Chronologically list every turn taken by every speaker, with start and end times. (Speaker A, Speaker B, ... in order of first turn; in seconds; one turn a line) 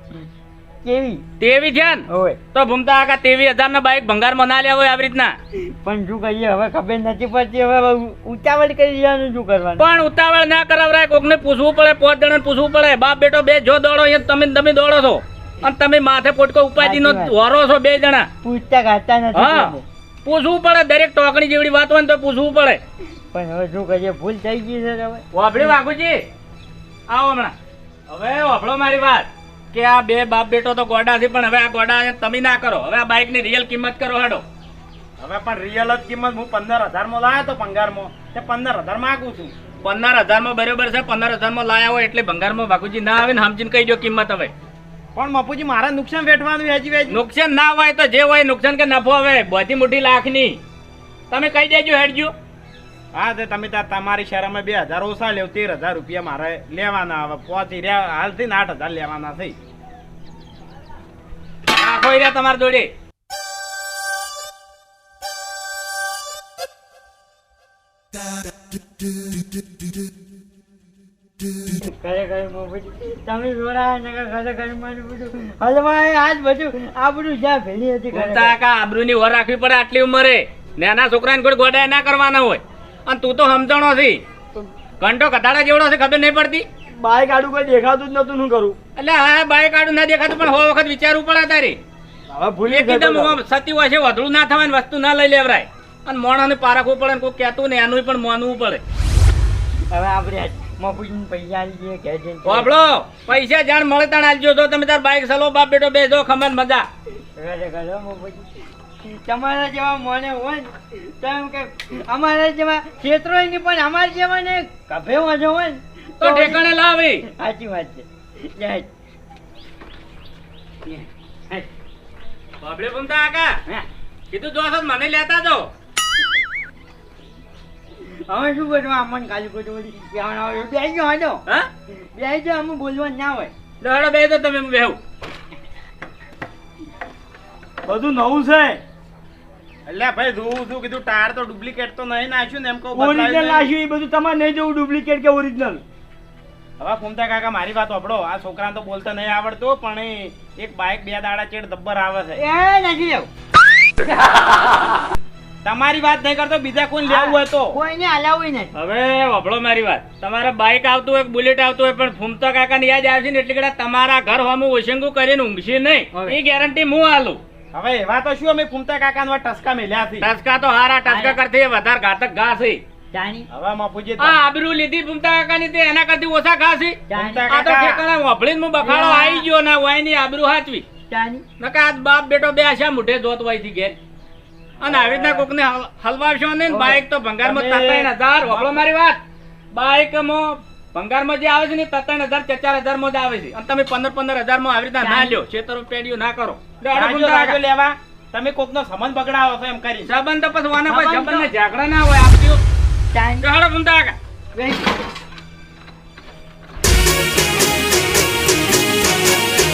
Speaker A: 0.8-1.2
Speaker B: 1.4-5.3
Speaker A: 2.1-2.4
Speaker A: 5.6-9.9
Speaker B: 9.8-18.3
Speaker A: 16.8-17.3
Speaker A: 18.4-19.9
Speaker B: 19.3-19.7
Speaker B: 20.2-22.8
Speaker A: 23.3-25.7
Speaker B: 25.3-26.2
Speaker B: 27.1-27.5
Speaker B: 28.1-34.4
Speaker C: 35.2-39.5
Speaker B: 39.8-44.5
Speaker C: 45.1-47.2
Speaker B: 47.1-50.6
Speaker B: 51.3-52.3
Speaker C: 53.1-59.6
Speaker B: 61.7-62.9
Speaker A: 71.7-78.6
Speaker B: 78.1-84.2
Speaker B: 85.0-86.7
Speaker D: 87.0-88.8
Speaker B: 89.0-91.8
Speaker D: 92.3-93.4
Speaker B: 92.7-98.8
Speaker A: 99.9-102.7
Speaker B: 102.5-106.9
Speaker A: 107.4-108.5
Speaker A: 109.0-118.9
Speaker B: 116.2-117.3
Speaker A: 120.8-121.7
Speaker B: 122.6-123.6
Speaker B: 124.3-125.7
Speaker A: 128.3-133.5
Speaker B: 133.8-135.0
Speaker D: 137.8-138.8
Speaker C: 139.9-143.7
Speaker D: 142.9-145.8
Speaker C: 146.8-152.4
Speaker A: 152.4-153.3
Speaker C: 155.7-157.8
Speaker A: 157.1-158.7
Speaker B: 158.7-167.4
Speaker A: 166.1-166.4
Speaker C: 167.7-170.3
Speaker B: 170.2-172.8
Speaker A: 171.1-171.4
Speaker A: 173.1-173.5
Speaker C: 173.5-174.4
Speaker B: 174.2-180.8
Speaker A: 177.1-177.5
Speaker C: 177.1-178.0
Speaker A: 178.8-179.5
Speaker A: 181.1-181.4
Speaker B: 181.6-184.0
Speaker B: 184.8-189.2
Speaker C: 184.8-185.5
Speaker C: 186.7-188.8
Speaker B: 189.7-197.6
Speaker A: 195.0-195.4
Speaker C: 196.9-200.1
Speaker B: 200.1-202.6
Speaker A: 200.8-201.5
Speaker A: 203.1-203.4
Speaker B: 203.4-204.2
Speaker A: 204.6-204.9